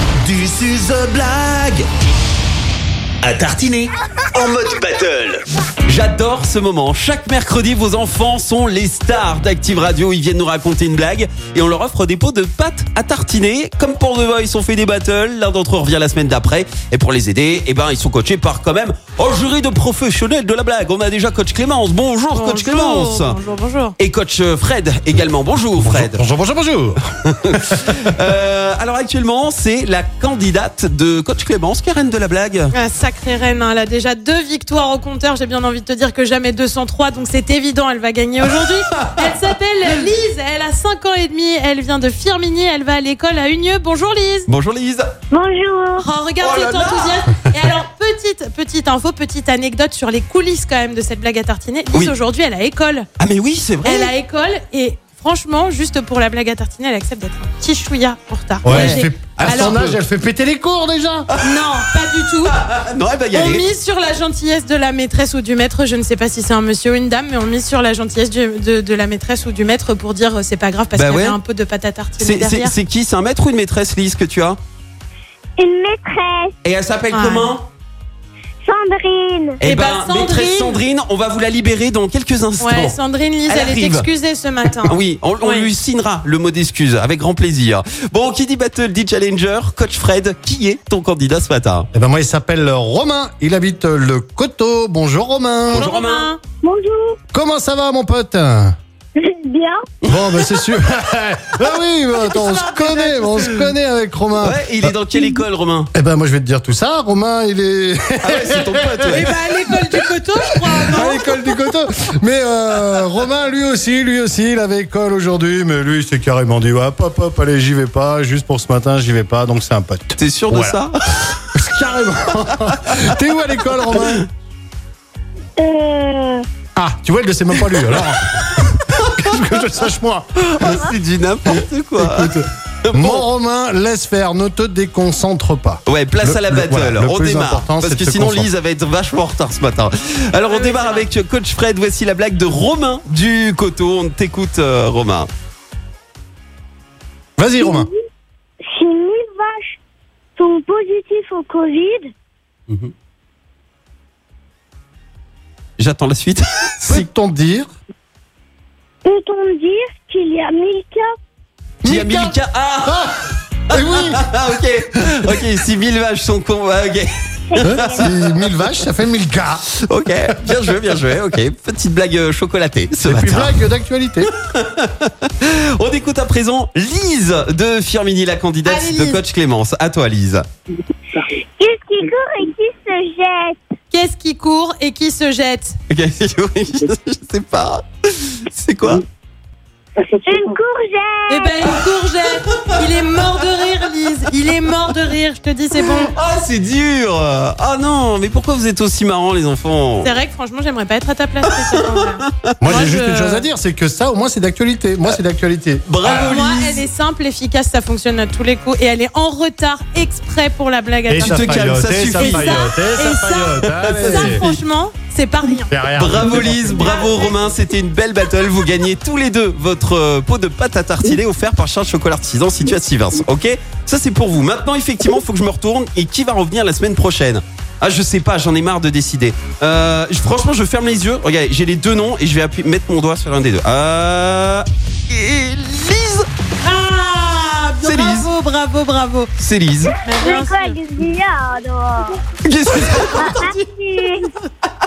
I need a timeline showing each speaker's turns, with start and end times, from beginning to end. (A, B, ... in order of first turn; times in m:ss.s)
0:00.2-0:01.8 A
0:03.2-0:05.4 A
0:05.9-0:23.4 B
0:22.3-0:24.0 C
0:24.0-0:26.2 B
0:25.8-0:28.0 D
0:27.4-0:32.7 B
0:32.7-0:44.5 C
0:39.0-0:39.3 B
0:44.5-0:45.1 B
0:45.3-0:46.0 E
0:46.0-0:53.1 C
0:46.4-0:47.6 B
0:53.2-0:54.1 B
0:53.8-0:59.8 C
0:58.6-1:01.3 D
0:58.6-1:00.0 B
1:01.3-1:03.6 B
1:01.4-1:02.6 C
1:03.3-1:12.7 C
1:10.9-1:11.4 B
1:12.2-1:14.6 B
1:15.6-1:16.5 E
1:16.6-1:17.7 B
1:17.1-1:17.6 C
1:18.6-1:19.6 E
1:19.6-1:24.1 B
1:19.6-1:20.8 C
1:22.6-1:25.7 C
1:24.8-1:31.9 B
1:31.9-1:35.9 D
1:35.7-1:36.3 B
1:35.8-1:36.4 C
1:36.6-1:37.2 E
1:37.3-1:38.7 D
1:39.2-1:39.8 E
1:40.0-1:40.4 B
1:40.0-1:45.4 D
1:42.3-1:43.5 C
1:44.4-1:45.9 B
1:45.9-1:50.0 D
1:48.2-1:49.4 B
1:49.1-1:51.4 C
1:50.7-2:00.8 D
2:00.2-2:00.9 B
2:01.5-2:04.2 D
2:03.9-2:04.2 B
2:05.6-2:06.4 E
2:06.8-2:10.9 D
2:07.9-2:08.5 B
2:10.4-2:13.2 B
2:11.5-2:18.5 D
2:15.9-2:25.3 B
2:20.4-2:21.1 C
2:27.4-2:27.9 D
2:27.6-2:28.0 E
2:28.6-2:29.8 E
2:30.4-2:32.1 E
2:35.8-2:37.0 B
2:36.9-2:37.7 D
2:39.0-2:41.1 E
2:41.8-2:43.0 B
2:41.8-2:43.2 D
2:43.7-2:44.2 D
2:43.7-2:48.6 B
2:47.5-2:48.1 E
2:47.6-2:49.7 D
2:49.9-2:53.6 B
2:50.3-2:50.7 D
2:53.0-2:54.3 D
2:54.2-3:00.4 B
2:58.6-2:59.2 C
3:01.6-3:03.6 E
3:03.9-3:05.8 C
3:05.9-3:09.0 B
3:10.2-3:11.8 E
3:11.3-3:16.1 C
3:12.4-3:13.4 B
3:15.8-3:20.1 B
3:20.0-3:23.4 C
3:21.4-3:22.9 B
3:22.6-3:26.3 D
3:25.8-3:26.8 B
3:26.0-3:31.6 C
3:31.1-3:34.4 D
3:31.2-3:32.6 B
3:32.2-3:35.7 C
3:33.8-3:34.6 B
3:35.7-3:36.8 D
3:36.0-3:56.2 B
3:36.7-3:37.3 C
3:56.6-3:59.3 C
3:57.8-3:58.3 B
3:59.4-3:59.9 B
3:59.9-4:02.2 E
4:00.0-4:00.8 C
4:02.4-4:03.6 B
4:03.1-4:04.3 E